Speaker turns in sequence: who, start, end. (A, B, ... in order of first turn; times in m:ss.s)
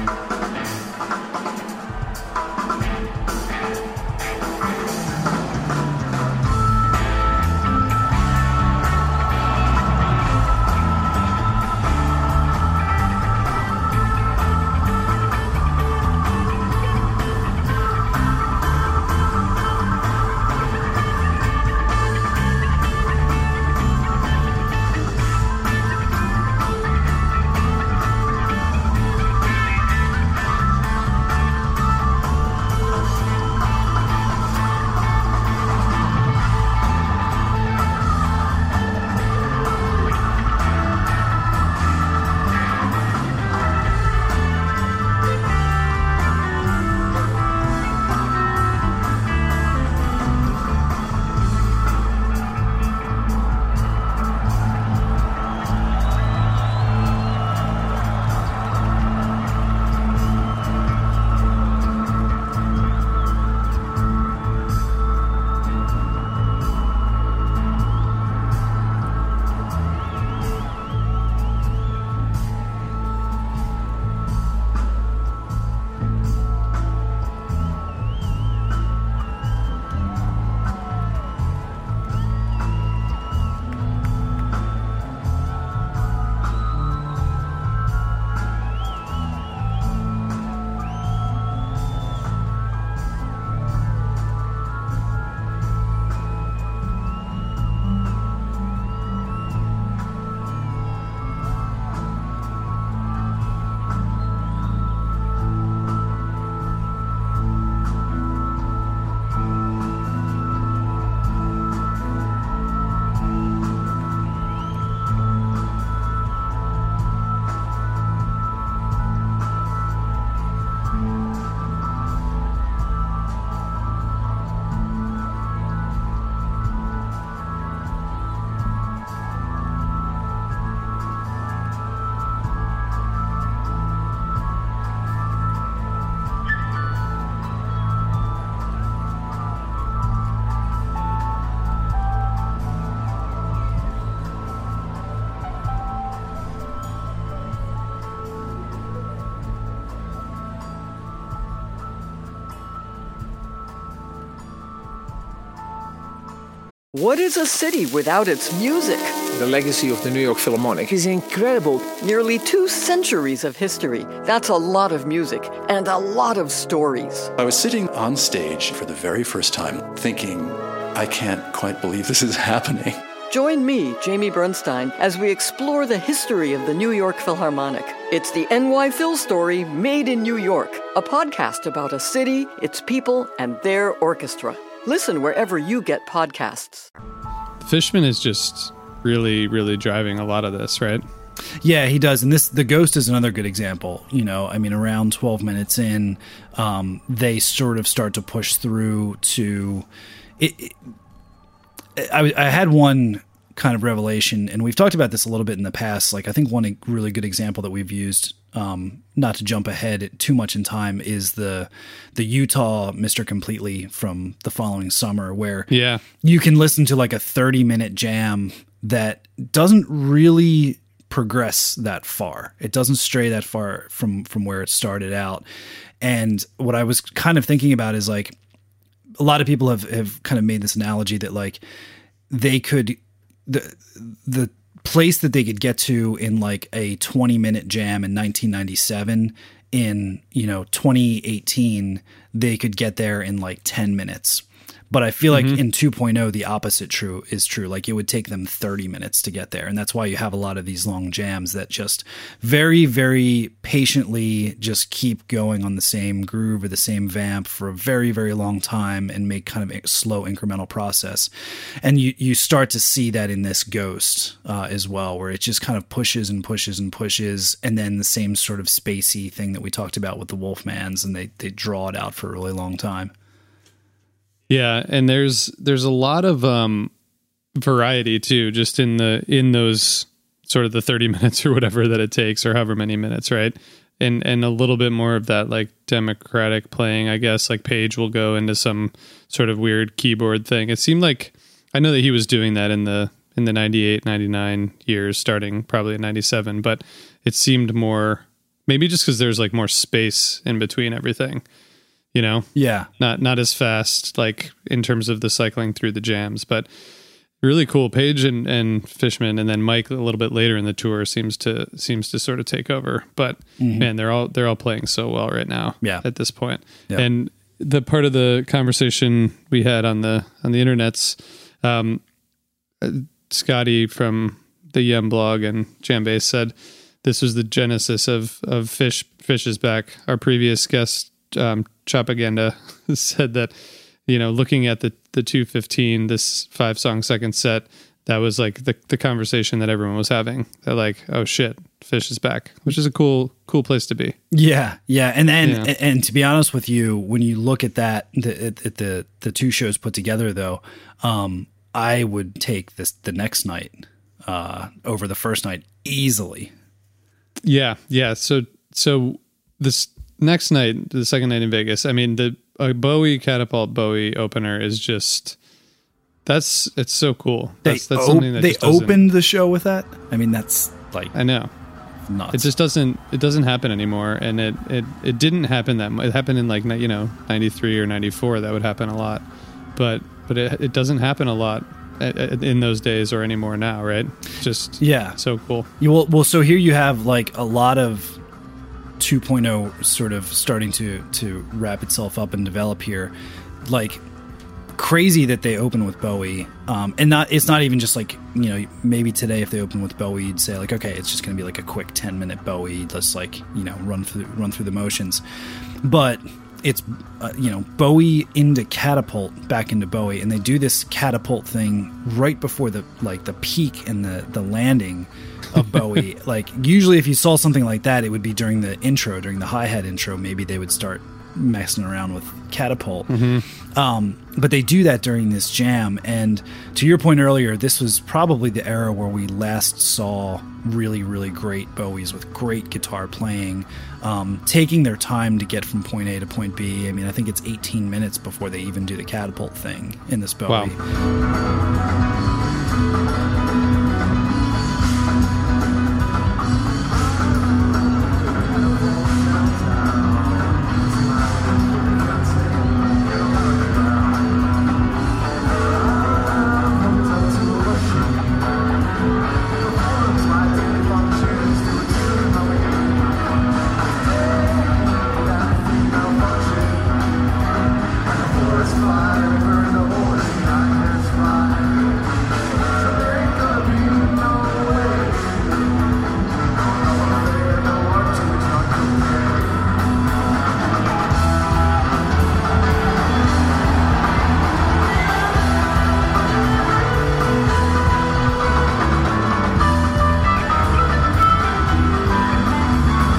2:36.9-2:39.2 A
2:39.3-2:41.8 B
2:41.8-2:47.3 A
2:47.4-2:53.0 C
2:53.3-3:06.9 A
3:07.6-3:11.0 D
3:11.6-3:19.9 E
3:20.4-3:20.9 E
3:22.0-3:45.4 E
3:35.7-3:36.0 D
3:46.0-3:48.4 E
3:49.2-3:51.6 E
3:52.3-4:21.3 E
4:05.3-4:05.6 D
4:21.8-4:33.1 E
4:34.5-4:36.9 D
4:37.6-5:01.4 D
5:02.1-5:02.5 D
5:02.5-5:02.9 E
5:03.0-5:06.7 D
5:07.4-5:22.0 D
5:13.6-5:13.9 E
5:22.8-5:33.5 D
5:34.0-5:44.2 D
5:44.3-5:56.5 E
5:45.4-5:45.7 D
5:57.4-6:05.4 D
6:06.2-6:09.0 D
6:07.6-6:11.1 E
6:11.1-6:11.5 D
6:12.1-6:12.5 E
6:12.3-6:19.2 D
6:19.8-6:25.7 D
6:24.8-6:25.2 E
6:25.8-6:28.2 E
6:29.0-6:33.1 E
6:33.6-6:34.0 E
6:34.8-6:45.2 E
6:45.8-7:20.8 E
7:03.1-7:03.4 D